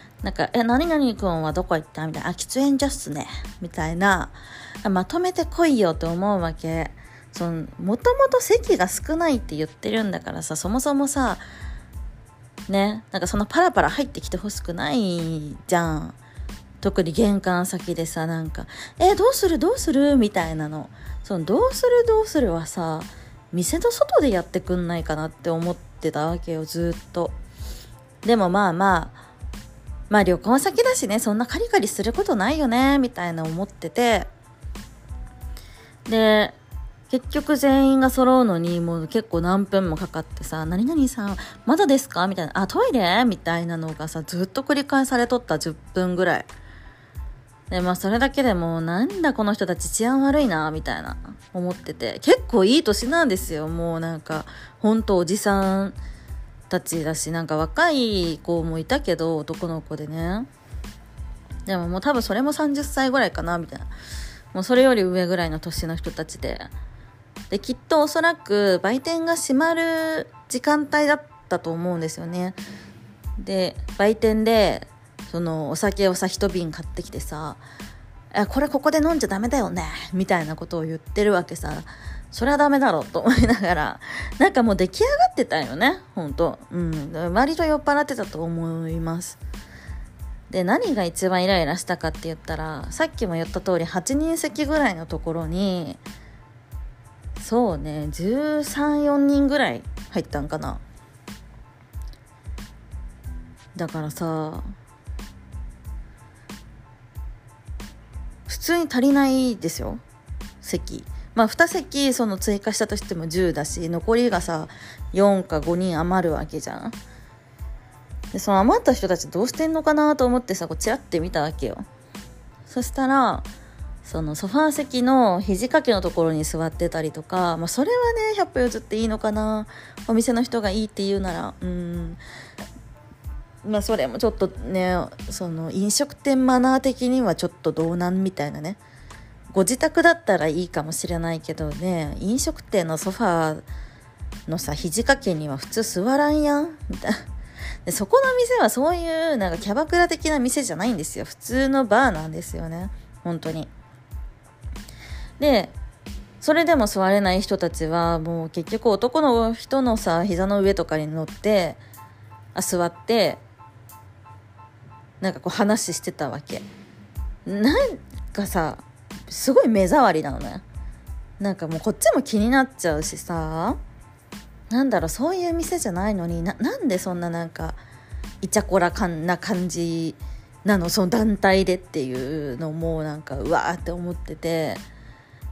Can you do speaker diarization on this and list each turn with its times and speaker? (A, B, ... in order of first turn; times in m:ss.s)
0:00.2-0:11.4 A
0:12.7-0:16.2 A
0:16.8-0:27.4 A
0:28.2-0:29.2 A
0:30.1-0:34.3 A
0:36.1-0:36.6 A
0:37.1-0:46.5 A
0:47.7-0:56.0 A
0:56.7-1:00.5 A
1:01.7-1:03.9 A
1:04.5-1:06.7 A
1:07.5-1:12.6 A
1:13.4-1:17.6 A
1:18.3-1:29.4 A
1:30.5-1:36.0 A
1:37.4-1:40.8 A
1:43.8-1:44.7 A
1:48.5-1:50.0 A
1:50.6-1:57.0 A
1:58.3-2:01.8 A
2:02.7-2:03.5 A
2:04.0-2:12.2 A
2:13.6-2:18.8 A
2:19.5-2:23.6 A
2:24.5-2:27.2 A
2:27.9-2:33.7 A
2:35.4-2:35.8 A
2:36.4-2:41.8 A
2:42.6-2:43.4 A
2:45.2-2:46.7 A
2:47.5-2:50.6 A
2:51.4-2:53.8 A
2:54.7-2:57.8 A
2:58.4-3:04.8 A